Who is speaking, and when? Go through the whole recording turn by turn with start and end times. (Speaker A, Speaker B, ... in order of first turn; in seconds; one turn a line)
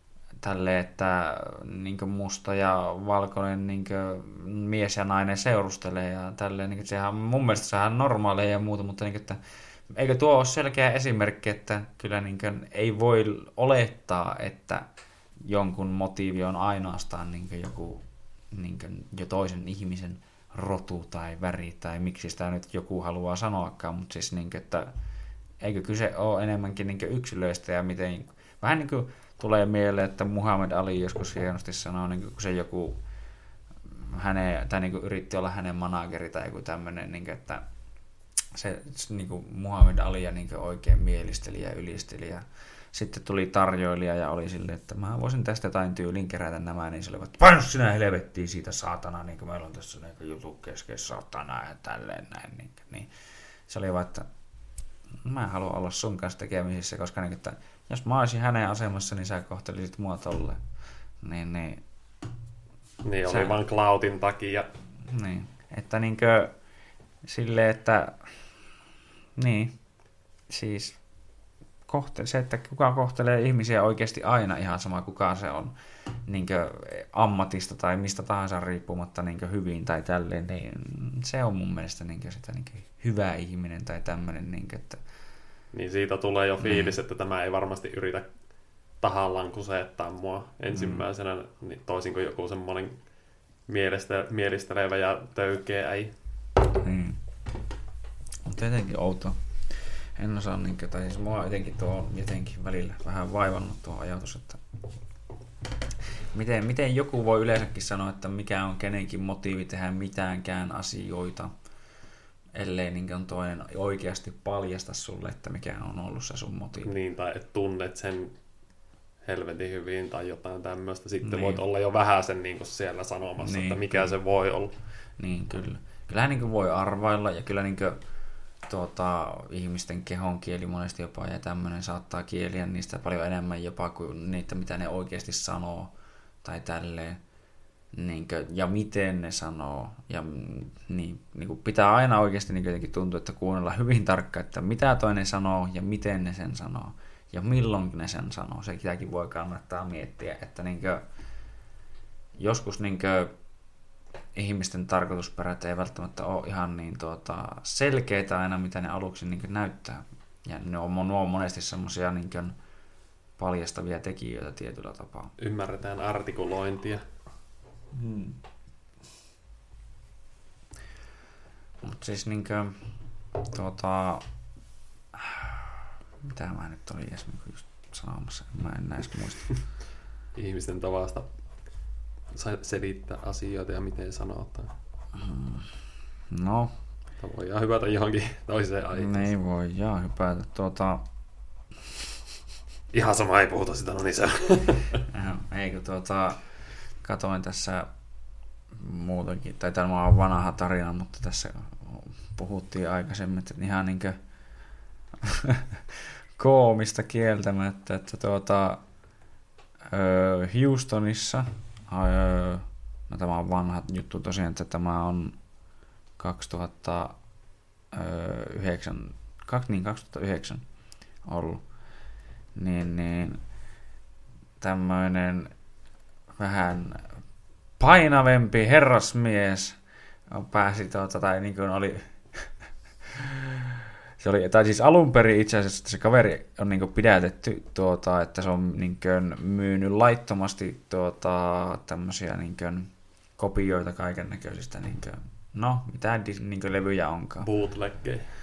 Speaker A: 0.4-14.9
Speaker A: 15.4-24.9
Speaker A: 25.6-33.0
Speaker A: 33.9-37.6
Speaker A: 38.5-53.1
Speaker A: 53.7-54.3
Speaker A: 55.2-60.6
Speaker A: 61.2-61.8
Speaker B: 63.0-64.7
Speaker A: 63.3-63.6
Speaker A: 65.1-66.5
Speaker A: 67.2-68.3
Speaker A: 69.4-69.8
Speaker A: 70.5-71.0
Speaker A: 71.9-75.7
Speaker A: 76.3-85.0
Speaker B: 85.7-88.3
Speaker A: 86.6-87.0
Speaker B: 89.0-93.0
Speaker A: 90.7-91.1
Speaker B: 93.7-96.1
Speaker A: 96.7-97.2
Speaker A: 98.5-104.6
Speaker A: 106.3-111.5
Speaker A: 112.5-116.9
Speaker B: 116.8-118.3
Speaker B: 119.2-124.7
Speaker A: 121.2-121.6
Speaker A: 123.4-124.1
Speaker A: 125.2-128.0
Speaker A: 128.7-135.9
Speaker A: 136.4-137.2
Speaker A: 137.9-151.0
Speaker A: 152.4-153.3
Speaker A: 154.4-162.6
Speaker A: 163.4-165.3
Speaker B: 165.4-167.0
Speaker A: 167.9-168.4
Speaker A: 171.8-172.8
Speaker A: 173.4-174.3
Speaker A: 175.1-175.7
Speaker A: 176.3-179.6
Speaker B: 180.3-181.3
Speaker B: 182.3-184.7
Speaker A: 185.2-185.7
Speaker A: 186.3-186.7
Speaker B: 187.2-189.3
Speaker A: 188.9-191.1
Speaker B: 192.9-195.0
Speaker A: 195.1-196.4
Speaker A: 197.0-197.9
Speaker A: 198.7-204.2
Speaker A: 205.2-208.8
Speaker A: 209.9-215.4
Speaker A: 216.2-217.1
Speaker A: 217.9-220.6
Speaker A: 221.3-221.6
Speaker A: 222.6-223.4
Speaker A: 224.6-225.5
Speaker A: 226.4-227.1
Speaker A: 227.8-229.8
Speaker A: 230.3-232.5
Speaker A: 233.1-247.5
Speaker B: 247.4-248.3